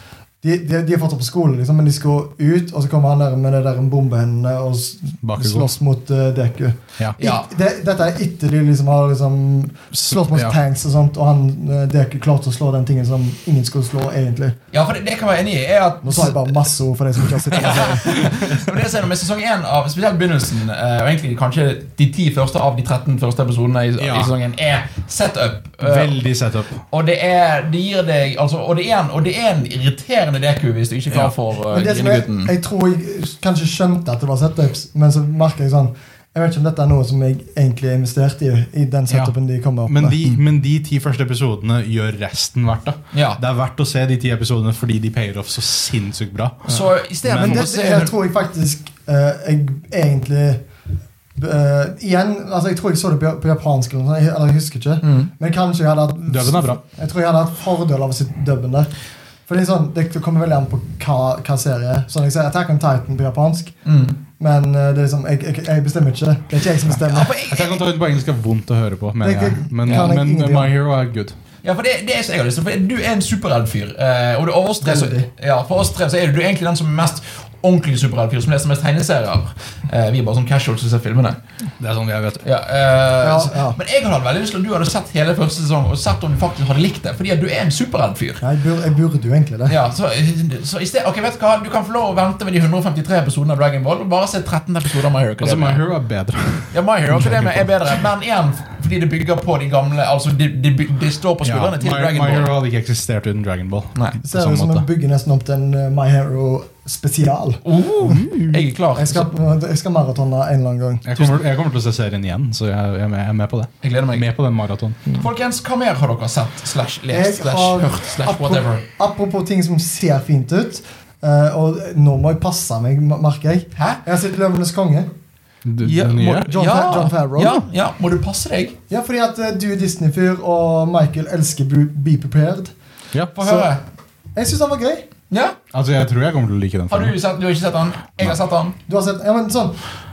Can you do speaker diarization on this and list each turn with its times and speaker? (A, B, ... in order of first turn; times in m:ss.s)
0:00.4-0:14.6 A
0:05.2-0:05.7 B
0:07.2-0:07.5 C
0:09.9-0:10.6 B
0:14.7-0:16.6 C
0:16.0-0:18.3 A
0:17.5-0:26.1 C
0:18.1-0:18.5 B
0:24.0-0:24.3 B
0:25.8-0:26.8 B
0:26.9-0:32.5 C
0:31.7-0:40.2 A
0:39.9-0:47.7 B
0:43.1-0:43.4 C
0:46.7-0:48.1 C
0:46.7-0:50.6 A
0:51.4-0:58.9 A
0:55.0-0:55.3 C
0:56.3-0:56.8 B
0:59.5-1:03.7 A
1:03.8-1:04.2 C
1:04.4-1:07.3 A
1:07.0-1:07.9 C
1:07.4-1:11.3 B
1:09.2-1:10.7 A
1:09.8-1:10.1 C
1:11.6-1:21.4 C
1:14.8-1:15.3 A
1:21.8-1:22.4 B
1:22.4-1:28.4 C
1:23.2-1:23.8 A
1:28.4-1:29.8 A
1:29.7-1:35.8 C
1:35.4-1:38.0 B
1:36.7-1:42.5 C
1:41.4-1:44.8 B
1:44.2-1:47.6 A
1:47.6-1:49.3 C
1:48.0-1:48.6 B
1:49.0-1:51.1 A
1:51.0-1:55.0 B
1:53.8-1:54.2 C
1:55.1-1:58.8 C
1:57.1-2:05.1 A
2:03.8-2:04.0 C
2:05.6-2:06.5 B
2:05.8-2:08.8 C
2:06.4-2:07.6 A
2:08.9-2:12.7 A
2:13.3-2:13.8 C
2:13.4-2:13.7 A
2:14.3-2:15.0 A
2:15.3-2:15.6 C
2:15.7-2:17.2 B
2:16.9-2:18.8 C
2:18.9-2:19.9 A